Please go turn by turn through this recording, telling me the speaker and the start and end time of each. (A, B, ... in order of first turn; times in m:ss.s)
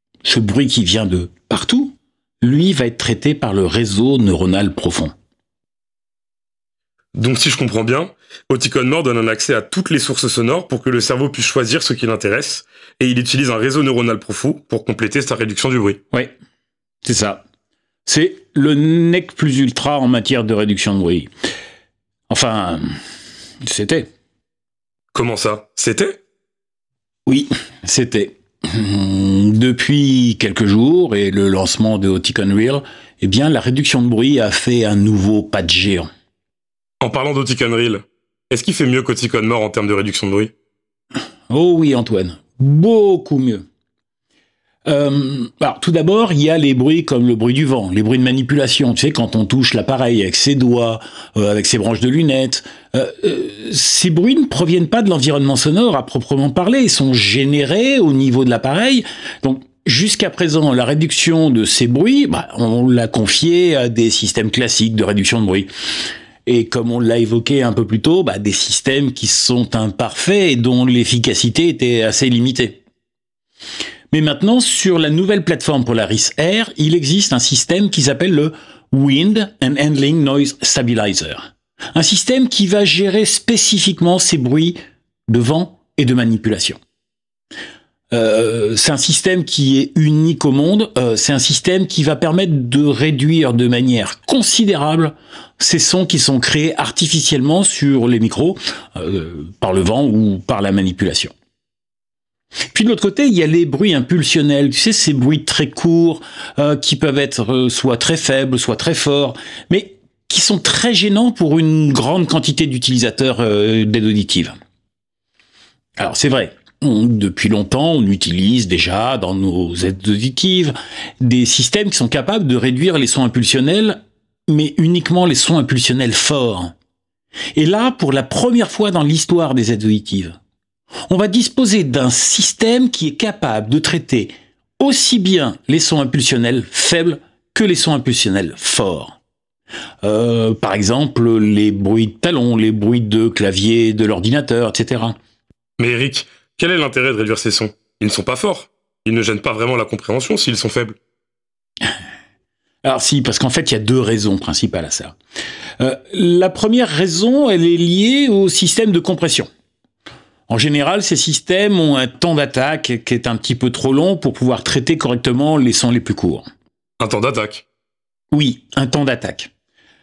0:00.2-0:05.1 A
0:07.2-0:16.0 B
0:17.0-0:17.4 A
0:18.1-0:21.3 A
0:22.3-0:22.9 A
0:23.6-0:24.1 A
0:25.1-0:26.2 B
0:27.3-0:36.1 A
0:37.0-0:40.5 B
0:41.5-0:43.6 A
0:44.9-1:05.7 A
1:06.5-1:12.8 A
1:14.1-1:26.8 A
1:28.1-1:41.3 A
1:42.7-1:54.6 A
1:56.0-2:06.7 A
2:07.6-2:10.4 A
2:11.1-2:19.2 A
2:20.0-2:25.2 A
2:25.8-2:31.0 B
2:32.8-2:35.2 A
2:35.8-2:39.5 A
2:40.5-2:46.5 A
2:47.0-2:47.6 B
2:48.3-2:49.5 A